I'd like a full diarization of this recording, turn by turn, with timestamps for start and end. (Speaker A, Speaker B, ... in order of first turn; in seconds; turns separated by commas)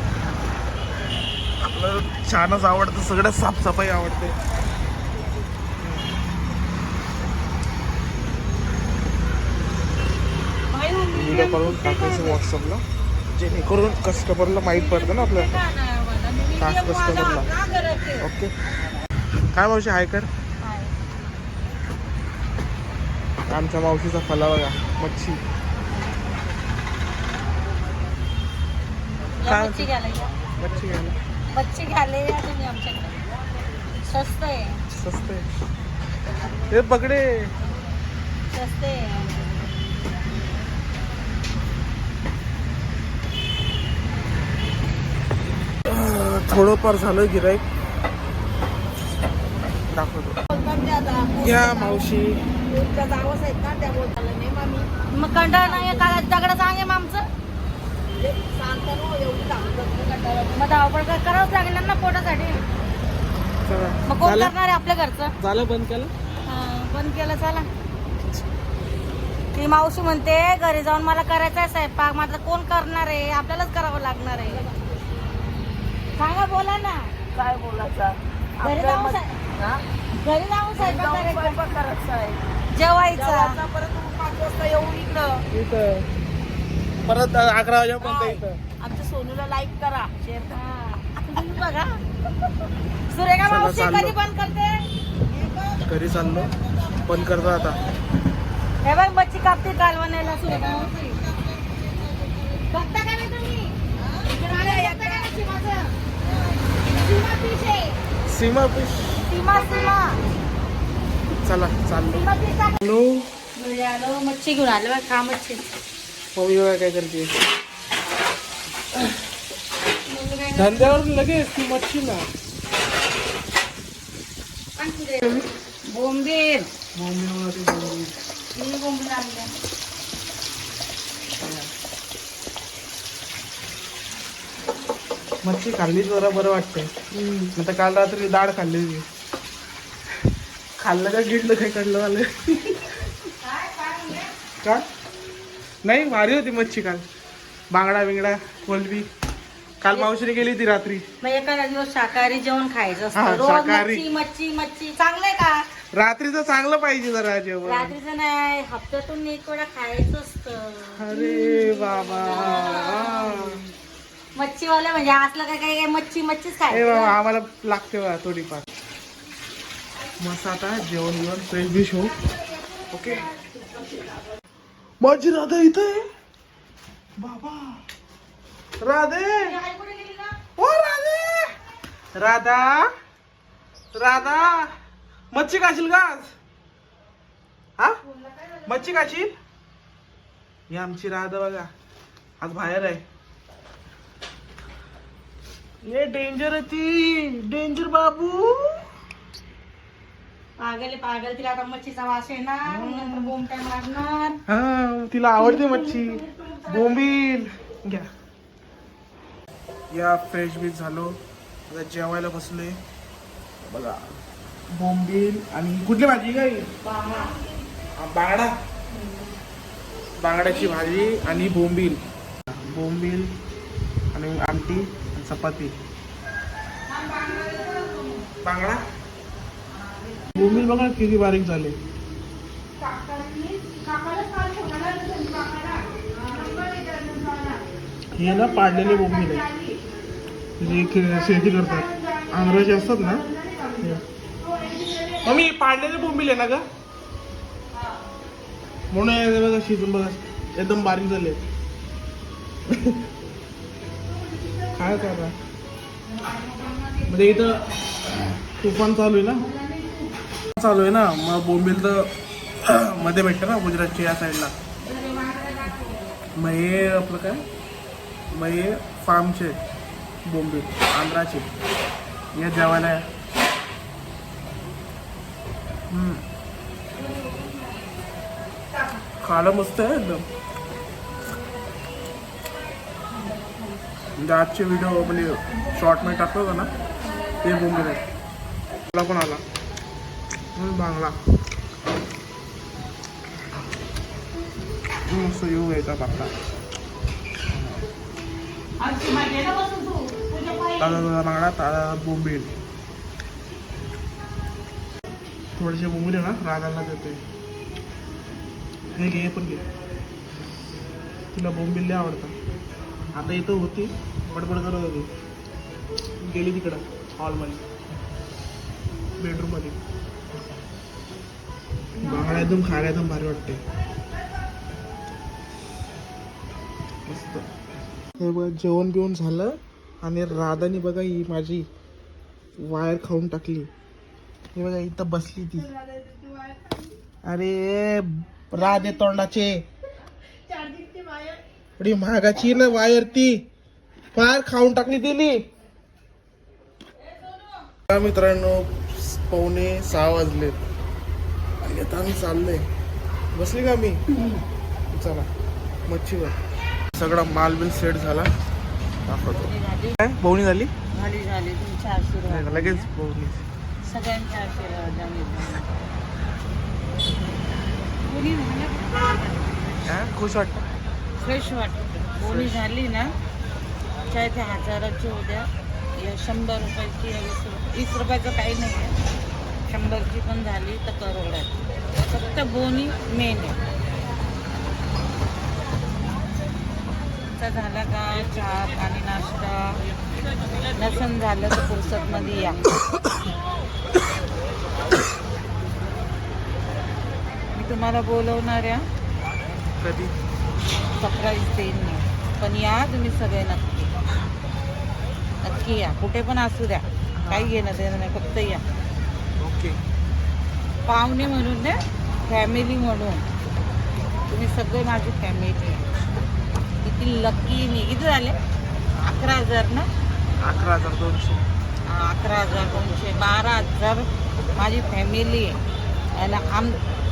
Speaker A: 1.6-4.3, Speaker A: 5.8-6.1, Speaker B: 10.7-12.4, Speaker A: 11.1-15.6, Speaker B: 14.4-18.2, Speaker A: 16.6-17.5, Speaker A: 18.2-18.5, Speaker A: 19.5-20.3, Speaker B: 20.6-20.9, Speaker A: 23.5-25.4, Speaker C: 29.4-30.3, Speaker A: 29.4-29.9, Speaker A: 30.6-31.2, Speaker C: 31.5-33.1, Speaker C: 34.0-34.8, Speaker A: 34.9-35.5, Speaker A: 36.7-37.5, Speaker C: 38.5-39.5, Speaker A: 45.8-47.6, Speaker A: 49.9-50.4, Speaker D: 50.5-52.1, Speaker A: 51.4-52.5, Speaker D: 52.6-54.9, Speaker C: 55.1-57.3, Speaker D: 55.5-56.1, Speaker D: 58.2-60.6, Speaker C: 60.5-62.6, Speaker A: 63.6-64.5, Speaker C: 64.1-65.3, Speaker A: 65.4-66.1, Speaker C: 66.4-67.7, Speaker C: 69.5-74.7, Speaker C: 76.2-77.0, Speaker D: 77.3-79.8, Speaker C: 78.6-79.3, Speaker C: 80.2-81.8, Speaker D: 80.8-82.4, Speaker C: 82.7-83.6, Speaker D: 83.1-85.4, Speaker A: 85.5-86.1, Speaker A: 87.0-88.6, Speaker D: 88.0-90.6, Speaker C: 90.5-92.0, Speaker C: 93.1-94.9, Speaker A: 93.5-94.2, Speaker D: 95.3-95.7, Speaker A: 95.8-96.5, Speaker A: 97.0-97.8, Speaker C: 98.8-101.2, Speaker C: 102.7-103.7, Speaker C: 104.3-105.9, Speaker D: 104.5-105.3, Speaker C: 106.8-107.9, Speaker A: 108.2-109.4, Speaker C: 109.3-110.2, Speaker A: 111.4-112.3, Speaker C: 112.1-112.8, Speaker A: 112.8-113.2, Speaker C: 113.5-115.6, Speaker A: 116.3-117.3, Speaker C: 120.0-121.0, Speaker A: 120.5-122.2, Speaker C: 124.8-125.3, Speaker B: 125.9-126.7, Speaker A: 126.9-128.1, Speaker C: 128.5-129.5, Speaker A: 131.4-131.7, Speaker A: 135.4-136.9, Speaker C: 137.2-137.5, Speaker A: 137.5-139.1, Speaker A: 140.8-143.0, Speaker C: 143.5-144.2, Speaker B: 143.5-144.2, Speaker A: 145.8-147.1, Speaker A: 147.7-149.1, Speaker A: 149.8-151.1, Speaker C: 151.2-155.7, Speaker A: 153.1-154.1, Speaker A: 155.9-157.9, Speaker C: 157.6-163.5, Speaker A: 160.9-163.6, Speaker C: 164.3-167.2, Speaker A: 166.7-168.7, Speaker A: 170.2-172.2, Speaker A: 172.9-173.3, Speaker C: 173.5-174.0, Speaker A: 175.0-176.0, Speaker A: 177.2-177.8, Speaker A: 178.8-179.6, Speaker C: 179.4-180.3, Speaker A: 180.6-181.5, Speaker A: 182.1-182.9, Speaker A: 183.9-184.7, Speaker A: 185.3-186.3, Speaker C: 188.2-188.6, Speaker A: 188.7-189.3, Speaker A: 190.7-191.7, Speaker A: 192.4-193.0, Speaker A: 195.8-198.8, Speaker C: 200.6-204.4, Speaker A: 202.6-203.3, Speaker A: 204.5-208.1, Speaker C: 205.4-207.0, Speaker A: 209.9-212.8, Speaker A: 213.6-214.2, Speaker A: 214.7-216.7, Speaker B: 216.8-217.4, Speaker A: 217.9-218.5, Speaker A: 220.2-223.3, Speaker B: 220.5-221.4, Speaker A: 224.1-225.7, Speaker B: 226.9-228.3, Speaker A: 228.4-228.8, Speaker B: 229.7-230.7, Speaker A: 230.3-231.8, Speaker B: 232.8-237.6, Speaker A: 238.1-239.5, Speaker B: 239.4-239.8, Speaker A: 240.6-243.3, Speaker B: 243.3-243.8, Speaker B: 244.4-245.2, Speaker A: 245.1-246.6, Speaker A: 248.9-251.4, Speaker A: 252.7-253.0, Speaker A: 254.7-255.3, Speaker B: 256.2-257.4, Speaker A: 257.1-257.6, Speaker A: 258.6-259.4, Speaker B: 259.4-260.1, Speaker A: 260.6-264.5, Speaker B: 264.9-265.9, Speaker A: 266.3-267.4, Speaker A: 268.3-269.6, Speaker A: 270.2-271.5, Speaker A: 272.3-273.1, Speaker A: 275.9-276.2, Speaker A: 279.2-280.2, Speaker A: 284.1-286.7, Speaker A: 287.4-288.0, Speaker A: 288.9-289.4, Speaker A: 290.6-291.2, Speaker A: 295.1-296.3, Speaker A: 297.5-297.8, Speaker B: 298.8-301.1, Speaker A: 300.8-302.5, Speaker A: 305.6-307.2, Speaker A: 308.9-309.6, Speaker A: 311.3-312.3, Speaker A: 313.1-315.1, Speaker A: 316.2-317.6, Speaker A: 319.2-319.8, Speaker A: 322.0-323.6, Speaker A: 327.1-327.4, Speaker A: 328.2-331.7, Speaker A: 332.6-333.7, Speaker A: 334.5-335.7, Speaker A: 337.2-339.6, Speaker A: 341.8-343.4, Speaker A: 344.1-345.4, Speaker A: 347.9-350.6, Speaker A: 351.6-352.7, Speaker A: 353.3-354.0, Speaker A: 354.9-355.3, Speaker A: 355.9-356.4, Speaker A: 356.9-358.3, Speaker A: 359.1-360.7, Speaker B: 359.3-359.9, Speaker B: 360.9-362.9, Speaker A: 362.3-363.4, Speaker B: 363.8-365.7, Speaker B: 368.1-369.8, Speaker A: 369.9-370.6, Speaker B: 371.2-373.1, Speaker A: 372.2-372.6, Speaker B: 374.1-375.5, Speaker B: 376.0-378.9, Speaker B: 379.7-383.6, Speaker B: 387.4-389.8, Speaker B: 390.7-392.8, Speaker B: 397.5-398.8, Speaker A: 399.8-400.1, Speaker B: 400.9-403.9, Speaker B: 405.4-408.6, Speaker A: 407.2-407.5, Speaker A: 409.4-409.8, Speaker B: 410.8-413.2, Speaker B: 414.3-415.8, Speaker B: 416.8-418.4, Speaker B: 419.0-419.9, Speaker A: 420.4-421.4, Speaker B: 421.9-425.6, Speaker B: 426.1-426.8